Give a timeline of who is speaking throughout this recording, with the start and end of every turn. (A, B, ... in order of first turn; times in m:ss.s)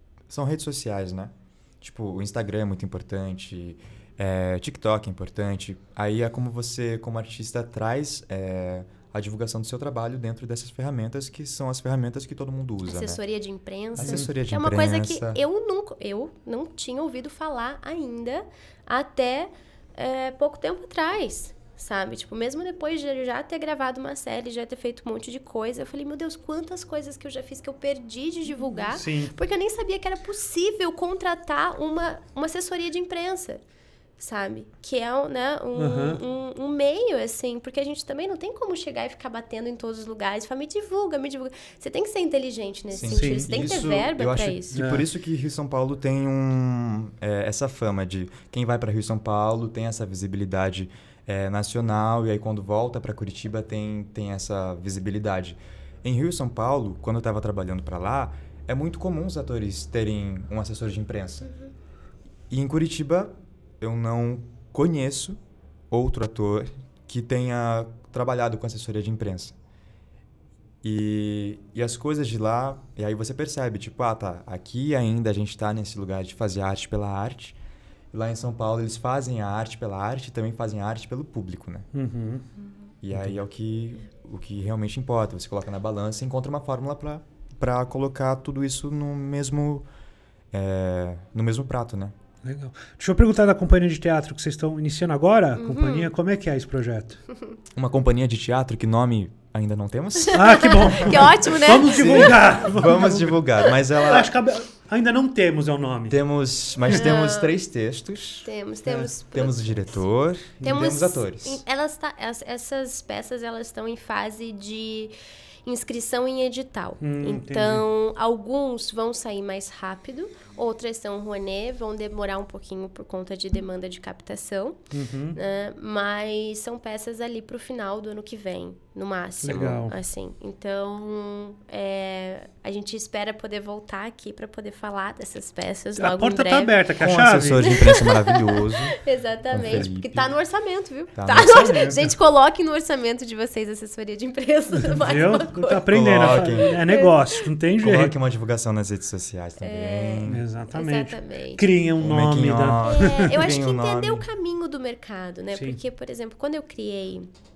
0:00.3-0:13.2 A
0:12.8-0:33.6 B
0:14.0-0:15.4 A
0:14.0-0:14.3 C
0:28.8-0:29.3 C
0:34.2-0:44.8 B
0:35.7-0:36.2 C
0:42.9-1:01.5 A
0:43.0-0:43.6 C
0:44.7-0:45.0 C
1:02.5-1:05.4 A
1:05.9-1:09.5 A
1:10.8-1:17.6 A
1:18.1-1:21.9 A
1:21.9-1:22.5 C
1:23.0-1:29.8 A
1:23.1-1:23.4 C
1:30.5-1:32.1 A
1:32.4-1:37.2 C
1:35.6-1:36.1 B
1:37.7-1:41.2 A
1:40.2-1:42.4 B
1:40.3-1:43.4 C
1:41.8-1:44.3 A
1:44.0-1:46.2 C
1:46.1-1:48.5 A
1:46.9-1:47.5 B
1:48.4-1:49.7 B
1:49.2-1:51.6 A
1:50.6-1:55.1 B
1:55.6-2:04.8 B
1:57.0-1:57.8 C
2:04.9-2:05.4 C
2:05.3-2:16.7 B
2:09.4-2:10.0 C
2:16.0-2:17.8 C
2:17.0-2:19.0 A
2:17.6-2:27.4 B
2:19.5-2:20.3 A
2:21.1-2:22.1 A
2:21.4-2:21.7 C
2:24.9-2:28.1 C
2:25.9-2:26.7 A
2:27.8-2:30.4 A
2:29.6-2:31.6 B
2:30.2-2:33.3 C
2:32.0-2:34.2 A
2:32.8-2:37.3 B
2:35.5-2:35.8 C